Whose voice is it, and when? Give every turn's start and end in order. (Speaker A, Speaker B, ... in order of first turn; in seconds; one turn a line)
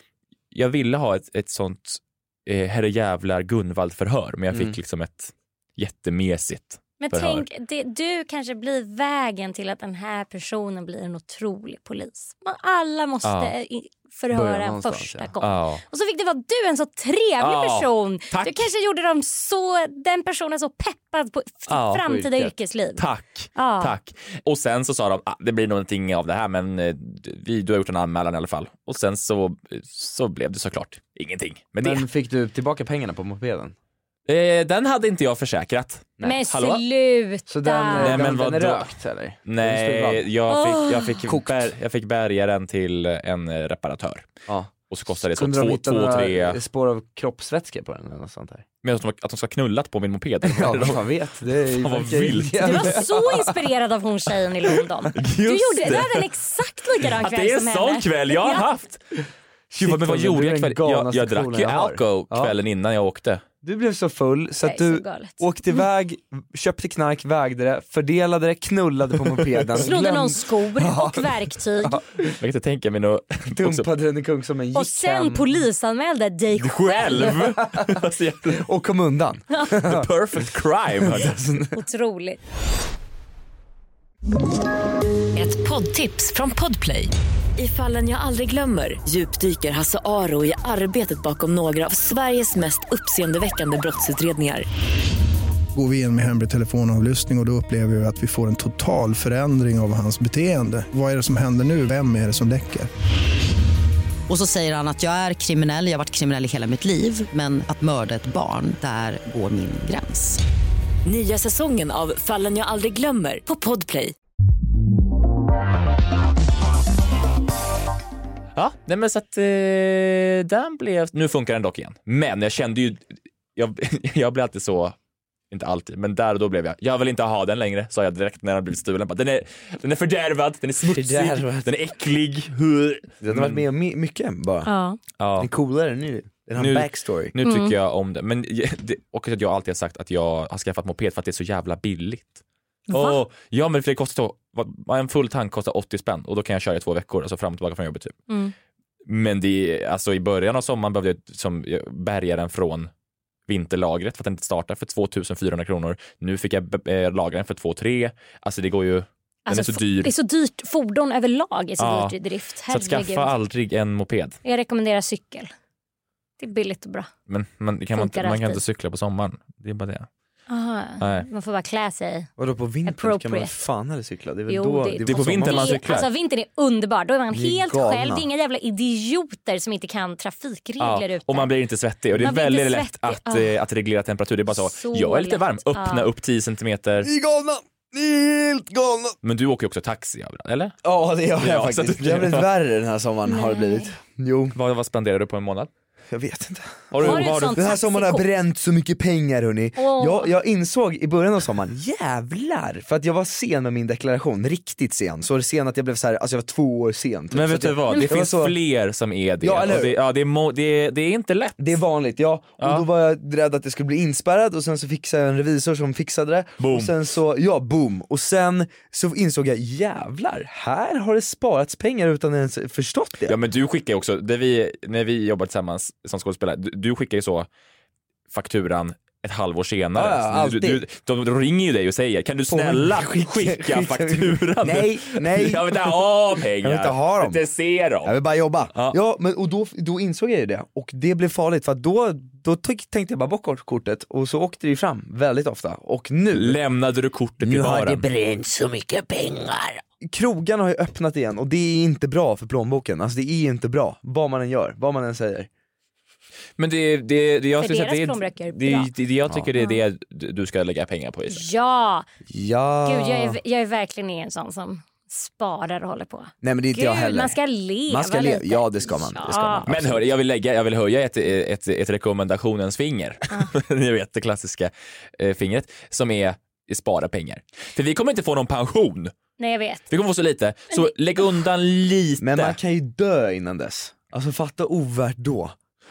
Speaker A: 0.5-7.4
Speaker B: 7.0-23.0
Speaker A: 13.2-13.5
Speaker C: 14.3-15.3
Speaker A: 15.4-15.8
Speaker A: 17.4-18.7
Speaker A: 21.7-22.0
Speaker C: 22.0-22.5
Speaker A: 23.0-32.1
Speaker B: 23.6-23.9
Speaker C: 31.8-33.7
Speaker A: 34.3-36.8
Speaker B: 36.2-38.3
Speaker C: 37.5-40.3
Speaker A: 38.0-38.9
Speaker A: 39.4-44.3
Speaker B: 40.5-41.2
Speaker C: 41.2-41.7
Speaker A: 44.9-46.6
Speaker C: 45.3-48.6
Speaker A: 48.8-51.0
Speaker C: 50.4-53.5
Speaker A: 51.7-53.1
Speaker B: 52.6-58.6
Speaker A: 55.1-56.2
Speaker A: 57.1-59.0
Speaker C: 59.7-62.5
Speaker A: 59.7-63.4
Speaker C: 63.6-72.4
Speaker B: 64.6-65.4
Speaker B: 69.8-72.0
Speaker A: 72.4-73.9
Speaker C: 73.6-75.4
Speaker B: 74.7-77.4
Speaker A: 76.6-78.6
Speaker C: 77.2-80.1
Speaker A: 79.8-81.4
Speaker C: 81.0-81.8
Speaker B: 81.7-82.4
Speaker D: 85.3-94.7
Speaker E: 95.7-102.9
Speaker F: 104.3-110.4
Speaker D: 111.0-114.1
Speaker A: 118.6-124.9
Speaker A: 125.5-133.6
Speaker C: 130.8-131.7
Speaker C: 133.2-134.7
Speaker B: 134.6-135.0
Speaker A: 135.2-135.5
Speaker C: 135.4-137.3
Speaker A: 136.6-142.4
Speaker B: 137.4-137.7
Speaker B: 142.9-143.2
Speaker A: 142.9-148.2
Speaker B: 148.3-148.5
Speaker A: 149.1-152.9
Speaker A: 153.5-160.1
Speaker B: 159.4-163.3
Speaker A: 161.8-162.1
Speaker A: 162.7-164.4
Speaker B: 164.4-165.5
Speaker B: 166.4-167.1
Speaker A: 167.3-170.1
Speaker B: 167.9-168.6
Speaker B: 170.5-172.3
Speaker A: 171.0-171.3
Speaker C: 172.4-175.8
Speaker B: 172.9-173.6
Speaker B: 174.5-181.5
Speaker A: 175.1-176.1
Speaker C: 177.3-178.3
Speaker A: 180.8-187.1
Speaker B: 182.1-183.5
Speaker B: 184.5-186.1
Speaker C: 187.0-189.2
Speaker A: 189.2-190.8
Speaker C: 190.8-194.6
Speaker A: 191.4-192.5
Speaker B: 193.3-193.9
Speaker A: 194.5-195.7
Speaker C: 196.1-208.5
Speaker A: 196.9-197.8
Speaker B: 197.0-198.2
Speaker B: 199.8-200.3
Speaker A: 207.3-211.8
Speaker C: 209.4-209.9
Speaker C: 211.6-223.4
Speaker A: 212.6-212.9
Speaker A: 216.6-216.9
Speaker A: 223.3-227.5
Speaker A: 228.3-238.2
Speaker C: 229.9-230.8
Speaker C: 232.5-237.4
Speaker C: 238.0-246.6
Speaker A: 246.3-248.0
Speaker C: 247.4-255.5
Speaker A: 256.6-261.5
Speaker B: 257.6-258.9
Speaker B: 259.6-259.8
Speaker B: 261.3-262.1
Speaker C: 262.3-263.4
Speaker B: 262.9-269.7
Speaker C: 266.4-270.1
Speaker A: 269.7-279.1
Speaker B: 279.4-279.8
Speaker A: 279.9-282.6
Speaker C: 282.2-285.6